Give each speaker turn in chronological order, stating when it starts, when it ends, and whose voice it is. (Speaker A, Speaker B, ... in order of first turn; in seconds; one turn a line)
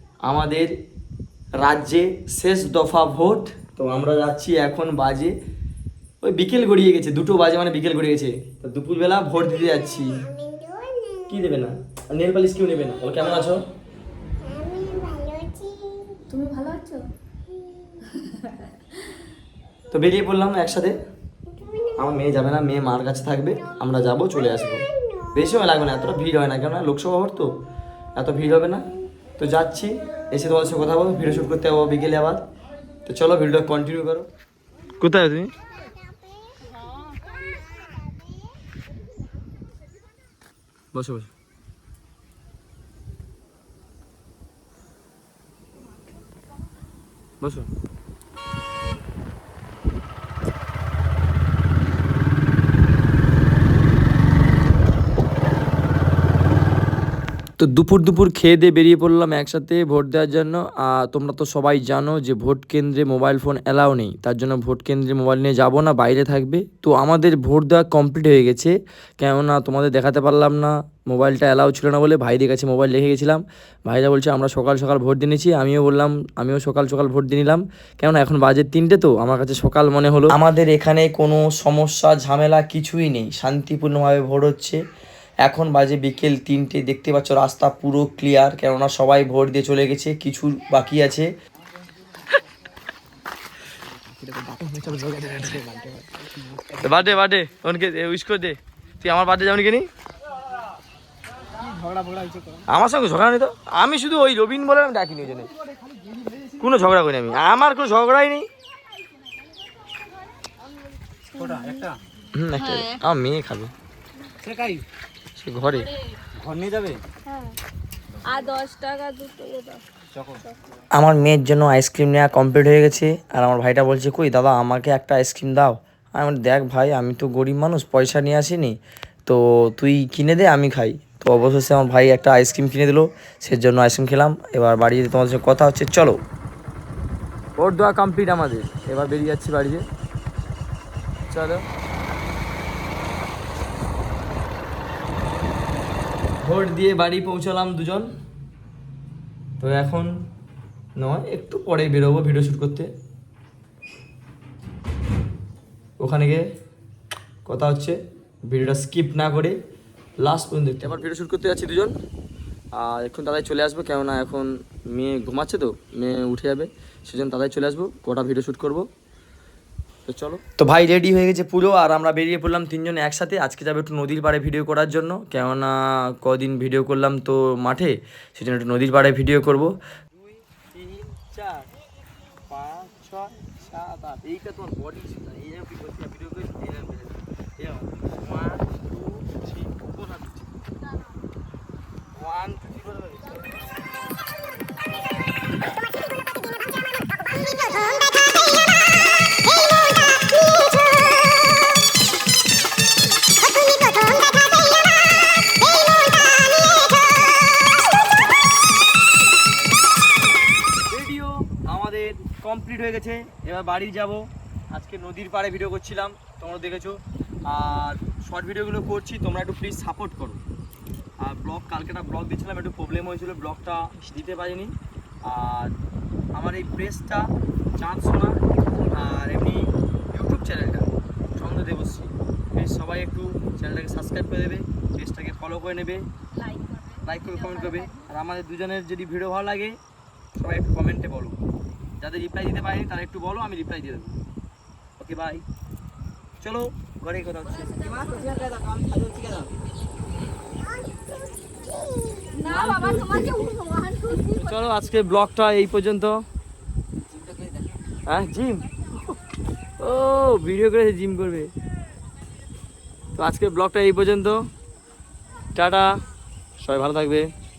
Speaker A: 0.3-0.7
Speaker A: 1.6-5.3
Speaker A: 6.2-10.3
Speaker A: 11.2-13.6
Speaker B: 16.3-17.1
Speaker A: 19.9-21.0
Speaker A: 21.9-27.6
Speaker A: 28.2-28.9
Speaker A: 29.4-32.5
Speaker A: 33.1-34.3
Speaker A: 35.0-35.5
Speaker A: 40.9-41.3
Speaker A: 47.4-47.7
Speaker A: 57.6-84.8
Speaker A: 85.5-91.3
Speaker B: 94.0-96.7
Speaker A: 96.7-99.9
Speaker B: 101.6-102.7
Speaker A: 102.7-105.5
Speaker A: 106.5-108.5
Speaker B: 111.3-112.0
Speaker A: 112.3-113.7
Speaker A: 115.4-117.0
Speaker B: 117.2-117.6
Speaker B: 118.2-120.6
Speaker A: 120.9-136.2
Speaker A: 137.6-139.9
Speaker A: 141.3-141.7
Speaker A: 146.4-148.1
Speaker A: 149.6-150.2
Speaker A: 151.0-152.9
Speaker A: 156.0-156.4
Speaker A: 157.4-159.6
Speaker A: 160.2-161.9
Speaker A: 162.8-168.9
Speaker A: 170.1-181.7
Speaker A: 182.5-190.5
Speaker A: 192.2-193.4
Speaker A: 210.9-220.4
Speaker A: 221.2-224.7
Speaker A: 225.3-225.7
Speaker A: 226.4-228.4
Speaker A: 228.9-236.0
Speaker B: 236.4-238.0
Speaker A: 237.1-239.8
Speaker A: 240.4-241.4
Speaker A: 242.0-244.2
Speaker A: 245.0-245.4
Speaker A: 246.4-248.4
Speaker B: 248.0-248.6
Speaker A: 249.2-249.4
Speaker B: 251.8-254.5
Speaker A: 254.2-256.2
Speaker A: 258.1-259.2
Speaker A: 259.8-261.5
Speaker A: 263.2-264.4
Speaker A: 265.6-265.9
Speaker A: 266.6-267.3